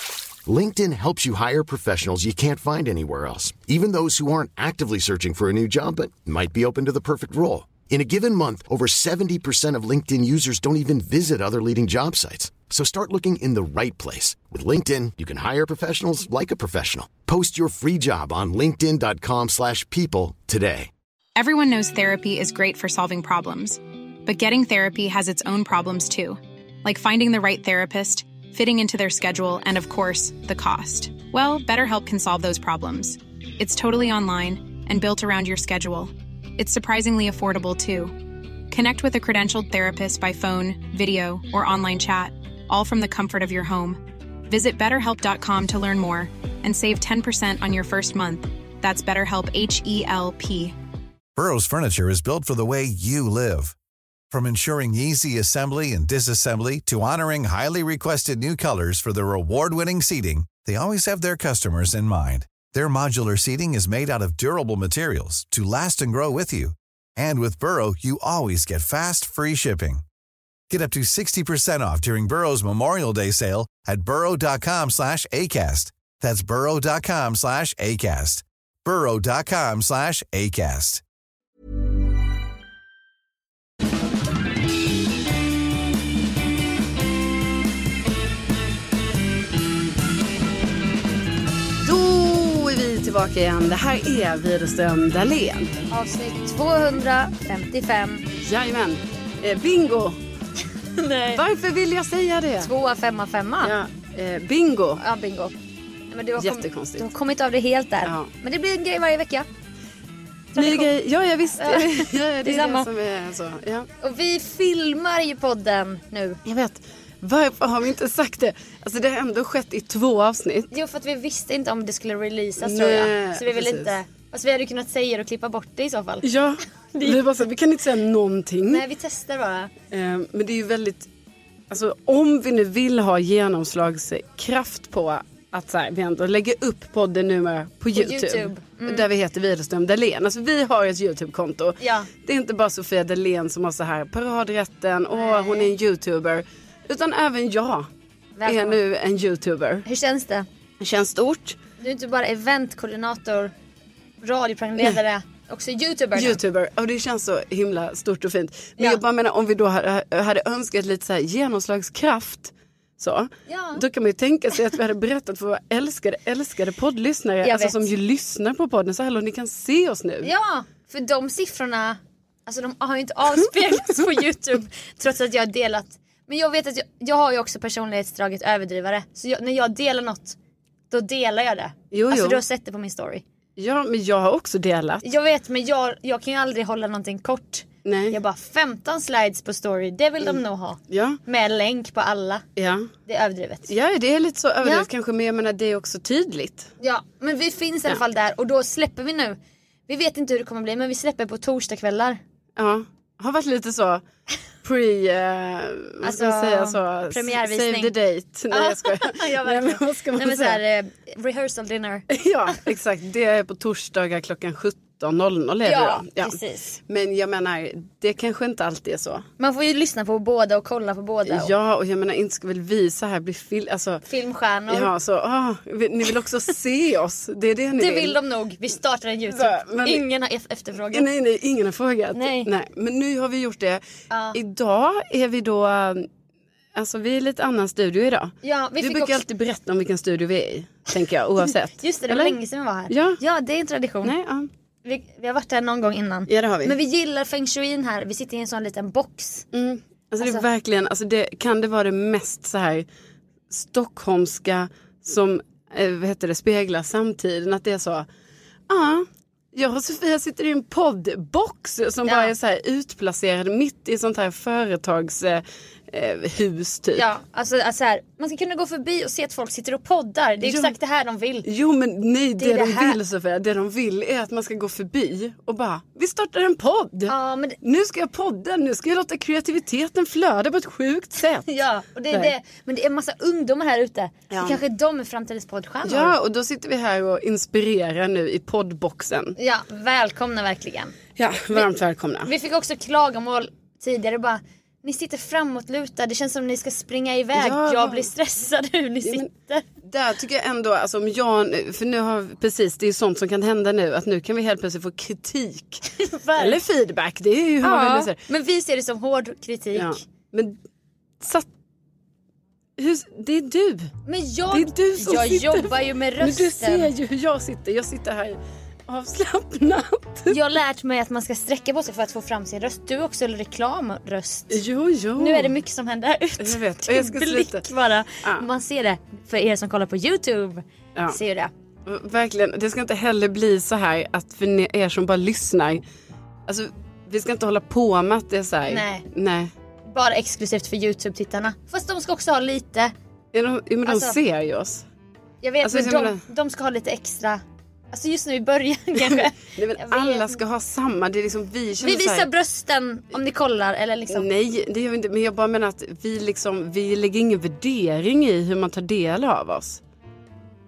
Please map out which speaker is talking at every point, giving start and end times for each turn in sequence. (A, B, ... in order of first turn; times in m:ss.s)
0:00.4-0:20.9 A
0:21.4-0:50.8 B
0:51.4-0:53.8 C
0:54.3-1:10.0 C
1:10.7-1:21.0 C
1:31.8-1:35.8 D
1:35.9-1:38.3 E
1:38.4-1:40.2 D
1:41.0-1:41.4 E
1:41.3-1:42.7 D
1:42.6-1:43.8 E
1:43.6-1:45.0 D
1:45.0-1:45.6 E
1:46.1-1:49.5 E
1:46.4-1:47.1 D
1:48.0-1:48.3 D
1:50.5-1:50.9 E
1:50.6-1:53.9 D
1:51.6-1:52.9 E
1:54.0-1:56.4 E
1:56.4-2:00.7 D
2:00.7-2:06.3 E
2:02.6-2:04.0 D
2:06.2-2:08.8 D
2:06.9-2:07.2 E
2:08.7-2:09.7 E
2:09.9-2:11.1 D
2:11.7-2:27.9 D
2:17.9-2:19.1 E
2:21.8-2:22.1 E
2:25.2-2:25.7 E
2:28.4-2:28.8 E
2:28.5-2:29.9 D
2:29.9-2:30.5 E
2:30.8-2:31.6 D
2:31.8-2:33.5 E
2:34.2-2:36.4 E
2:36.2-2:50.3 D
2:38.8-2:39.0 E
2:43.5-2:43.8 E
2:47.4-2:47.9 E
2:50.2-3:00.4 E
3:00.9-3:03.2 E
3:01.9-3:02.4 D
3:03.6-3:05.0 D
3:05.0-3:12.5 E
3:07.8-3:08.2 D
3:10.9-3:11.2 D
3:12.6-3:12.9 D
3:13.1-3:13.7 E
3:13.7-3:16.7 D
3:14.6-3:14.9 E
3:16.8-3:22.2 E
3:22.6-3:24.0 D
3:24.6-3:30.6 D
3:26.0-3:27.9 E
3:28.5-3:32.1 E
3:32.1-3:39.3 D
3:35.6-3:36.8 E
3:39.4-3:41.5 E
3:41.3-3:44.0 D
3:44.0-3:44.9 E
3:44.7-3:48.2 D
3:47.8-3:51.1 E
3:49.3-3:50.0 D
3:50.9-3:53.8 D
3:52.1-3:52.5 E
3:54.1-3:54.4 E
3:54.3-3:56.1 D
3:56.8-4:02.4 D
3:58.4-3:59.2 E
4:01.8-4:04.1 E
4:02.9-4:03.2 D
4:04.0-4:04.5 D
4:04.8-4:09.5 E
4:06.3-4:06.8 D
4:09.5-4:12.9 D
4:10.2-4:10.4 E
4:13.5-4:18.1 D
4:18.7-4:27.1 D
4:22.1-4:22.3 E
4:27.0-4:31.5 E
4:30.4-4:30.7 D
4:31.4-4:41.5 D
4:32.4-4:33.0 E
4:37.1-4:37.6 E
4:41.5-4:46.2 E
4:44.3-4:44.6 D
4:45.8-4:49.4 D
4:49.4-4:51.0 E
4:51.2-4:52.3 D
4:52.2-4:59.6 E
4:57.4-4:58.1 D
4:59.8-5:05.8 D
5:05.9-5:06.6 E
5:06.4-5:08.2 D
5:07.6-5:10.0 E
5:09.7-5:10.6 D
5:11.2-5:11.5 D
5:12.8-5:13.9 D
5:14.0-5:16.9 E
5:14.5-5:20.4 D
5:20.3-5:24.6 E
5:24.5-5:25.5 D
5:25.2-5:31.5 E
5:26.4-5:27.6 D
5:31.9-5:35.8 D
5:36.5-5:39.5 D
5:38.7-5:39.1 E
5:39.8-5:42.9 E
5:43.3-5:44.8 D
5:43.8-5:44.2 E
5:45.4-5:50.4 E
5:45.6-5:46.2 D
5:49.1-5:52.3 D
5:51.8-5:54.3 E
5:54.1-5:59.8 D